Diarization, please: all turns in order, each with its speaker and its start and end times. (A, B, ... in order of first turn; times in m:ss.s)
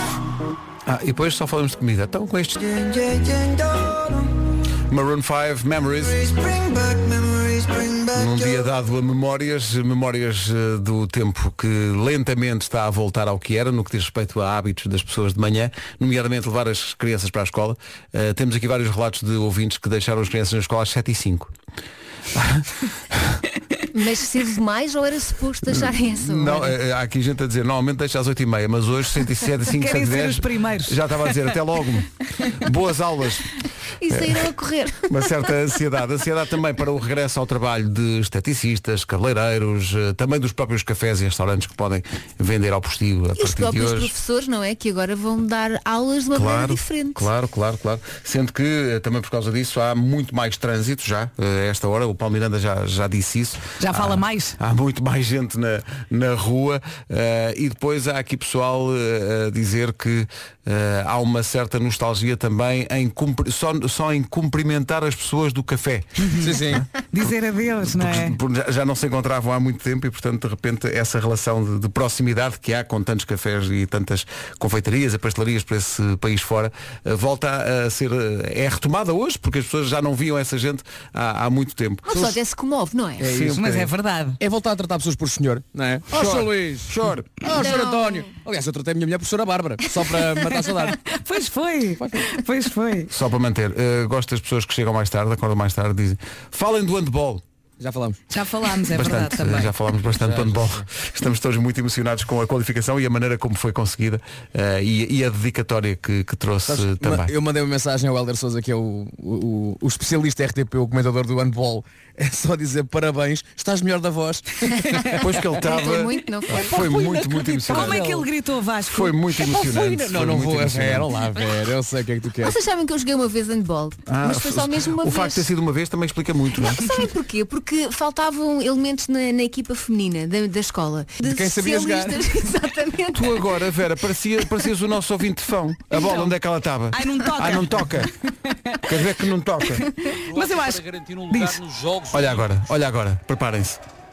0:00.8-0:03.4 A
0:04.9-0:06.9 A
0:08.0-0:21.5 A
0:22.3-0:23.4 A
0:23.9-0:26.7 B
0:25.7-0:33.5 A
0:29.7-0:31.0 C
0:34.0-0:35.2 B
0:34.1-0:34.4 A
0:35.1-0:44.1 A
0:43.4-0:47.3 B
0:46.3-1:07.3 A
0:53.8-0:54.6 C
1:06.2-1:06.6 C
1:06.4-1:06.8 D
1:07.1-1:08.4 C
1:07.9-1:22.4 A
1:22.1-1:23.4 B
1:23.2-1:23.6 D
1:23.2-1:23.9 A
1:23.5-1:24.4 C
1:24.4-1:31.0 D
1:26.1-1:27.3 A
1:27.5-1:28.3 B
1:31.0-1:33.1 C
1:32.0-1:32.2 D
1:33.1-1:37.4 A
1:37.8-1:38.2 D
1:38.3-1:39.7 C
1:38.9-1:47.3 A
1:40.2-1:40.8 D
1:46.7-1:55.2 D
1:55.2-1:58.0 A
1:55.2-1:56.8 B
1:56.5-1:58.3 D
1:57.7-1:59.2 C
1:58.8-2:01.1 A
1:59.4-2:02.6 D
2:02.4-2:05.4 B
2:04.1-2:06.9 A
2:06.5-2:13.4 B
2:11.2-2:12.3 D
2:13.1-2:18.1 A
2:15.9-2:16.3 C
2:16.9-2:19.1 C
2:18.9-2:19.8 A
2:19.8-2:21.6 C
2:20.3-2:22.5 E
2:22.1-2:23.8 A